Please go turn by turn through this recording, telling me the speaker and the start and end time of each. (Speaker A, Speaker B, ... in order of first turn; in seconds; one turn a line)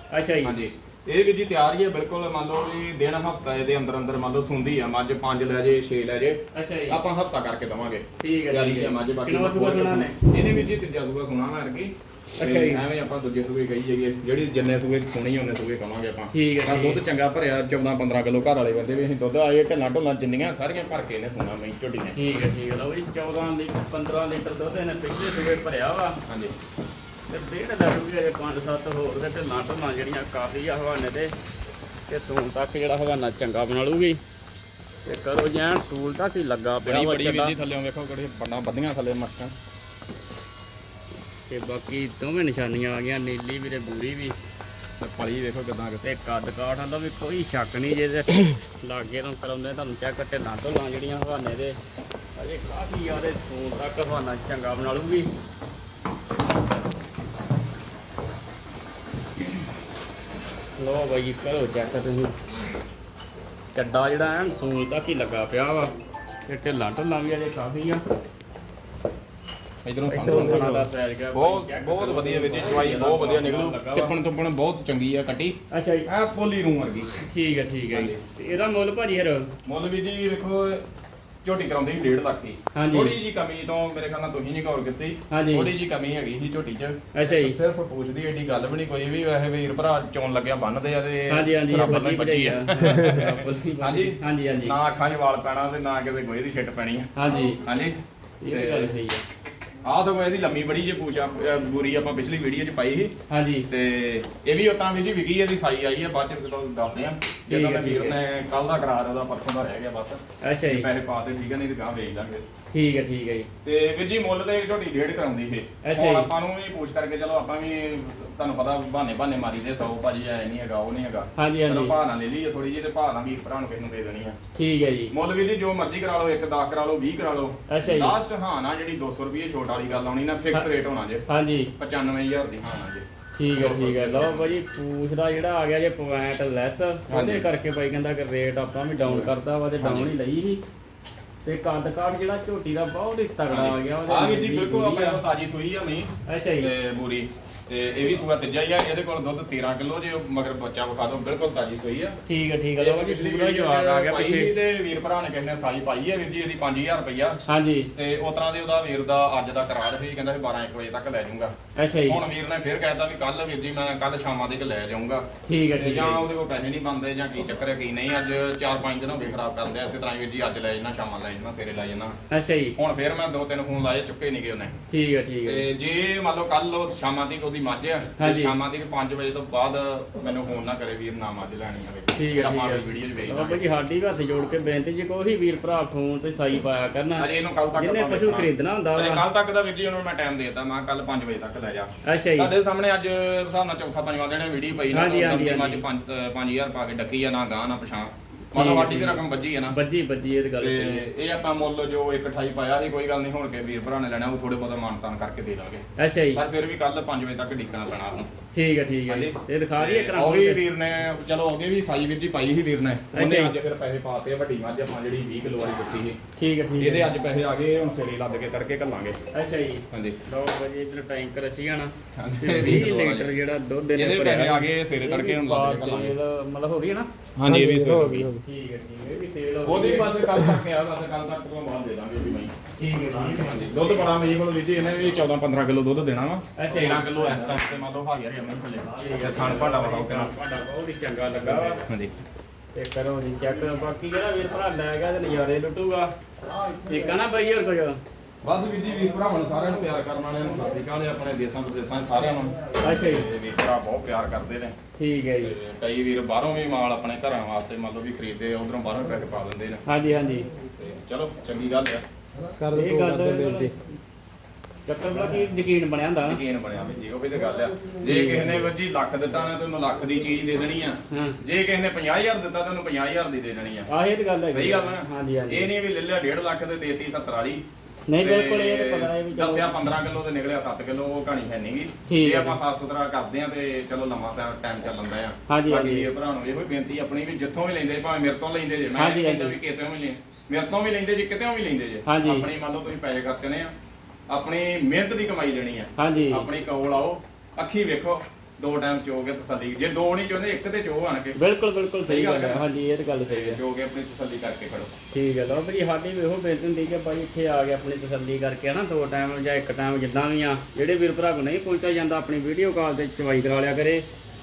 Speaker A: 0.1-0.6
Speaker B: 0.4-22.2
Speaker A: 6.5-7.0
Speaker A: 8.2-10.2
Speaker A: 12.4-12.8
Speaker A: 16.3-17.0
Speaker A: 22.1-26.2
Speaker B: 26.3-26.5
Speaker A: 27.3-31.3
Speaker A: 32.1-34.2
Speaker A: 35.0-37.5
Speaker B: 36.8-39.5
Speaker A: 41.5-44.3
Speaker B: 45.0-46.0
Speaker A: 46.0-51.8
Speaker A: 52.4-55.3
Speaker A: 60.8-62.3
Speaker A: 63.7-65.9
Speaker A: 66.5-68.0
Speaker B: 69.8-77.2
Speaker A: 70.0-74.1
Speaker A: 75.7-76.1
Speaker A: 77.2-79.5
Speaker B: 77.9-78.2
Speaker B: 79.6-80.8
Speaker B: 81.4-97.1
Speaker A: 82.7-83.1
Speaker A: 85.3-85.7
Speaker A: 87.1-87.5
Speaker A: 91.3-94.7
Speaker A: 97.2-97.6
Speaker B: 97.6-97.9
Speaker A: 98.4-99.2
Speaker B: 98.5-98.9
Speaker B: 99.8-103.1
Speaker A: 103.3-103.7
Speaker B: 103.7-112.4
Speaker A: 107.5-108.1
Speaker A: 110.4-110.9
Speaker A: 112.7-113.5
Speaker B: 113.6-124.3
Speaker A: 115.8-116.3
Speaker A: 121.3-121.9
Speaker A: 124.5-125.1
Speaker B: 125.1-131.2
Speaker A: 127.7-128.2
Speaker A: 131.3-131.7
Speaker B: 131.8-133.0
Speaker A: 133.4-140.6
Speaker B: 133.6-134.6
Speaker B: 137.1-137.4
Speaker B: 139.0-140.1
Speaker A: 141.4-145.2
Speaker B: 143.5-152.2
Speaker A: 146.3-146.7
Speaker A: 152.3-154.5
Speaker B: 152.8-157.4
Speaker A: 157.5-157.9
Speaker B: 157.9-165.2
Speaker A: 161.8-162.2
Speaker A: 165.4-166.2
Speaker B: 165.8-172.1
Speaker A: 172.3-172.8
Speaker B: 172.8-174.7
Speaker A: 174.9-175.7
Speaker B: 175.4-183.6
Speaker A: 178.2-178.6
Speaker A: 182.1-189.2
Speaker B: 187.2-199.8
Speaker A: 192.0-192.5
Speaker A: 194.9-195.8
Speaker A: 198.5-201.0
Speaker B: 200.6-205.8
Speaker A: 206.0-206.4
Speaker B: 206.3-208.3
Speaker A: 208.5-210.6
Speaker B: 209.1-216.2
Speaker A: 213.1-213.5
Speaker A: 216.3-217.1
Speaker B: 216.8-219.2
Speaker A: 219.3-227.1
Speaker B: 219.9-220.2
Speaker B: 222.2-223.3
Speaker B: 223.9-226.1
Speaker B: 227.3-228.3
Speaker C: 227.4-228.4
Speaker A: 228.4-230.2
Speaker B: 229.6-232.5
Speaker A: 232.8-234.2
Speaker B: 233.3-240.3
Speaker A: 236.6-237.6
Speaker A: 238.9-241.8
Speaker B: 241.6-242.1
Speaker A: 242.7-246.1
Speaker A: 246.8-248.0
Speaker B: 248.4-254.8
Speaker A: 252.8-253.2
Speaker A: 255.0-255.6
Speaker B: 255.4-259.8
Speaker A: 259.9-260.4
Speaker B: 260.8-262.0
Speaker C: 262.6-263.7
Speaker A: 262.7-263.7
Speaker A: 264.9-266.4
Speaker B: 266.2-273.9
Speaker A: 268.0-268.7
Speaker A: 271.1-271.4
Speaker A: 273.9-275.7
Speaker B: 274.5-277.6
Speaker A: 278.1-279.7
Speaker B: 278.2-293.7
Speaker A: 282.1-282.6
Speaker A: 285.5-286.1
Speaker A: 289.0-289.5
Speaker A: 292.1-292.4
Speaker B: 294.3-301.4
Speaker A: 296.0-296.5
Speaker A: 301.4-303.6
Speaker B: 302.0-302.6
Speaker B: 303.3-304.9
Speaker A: 305.1-314.0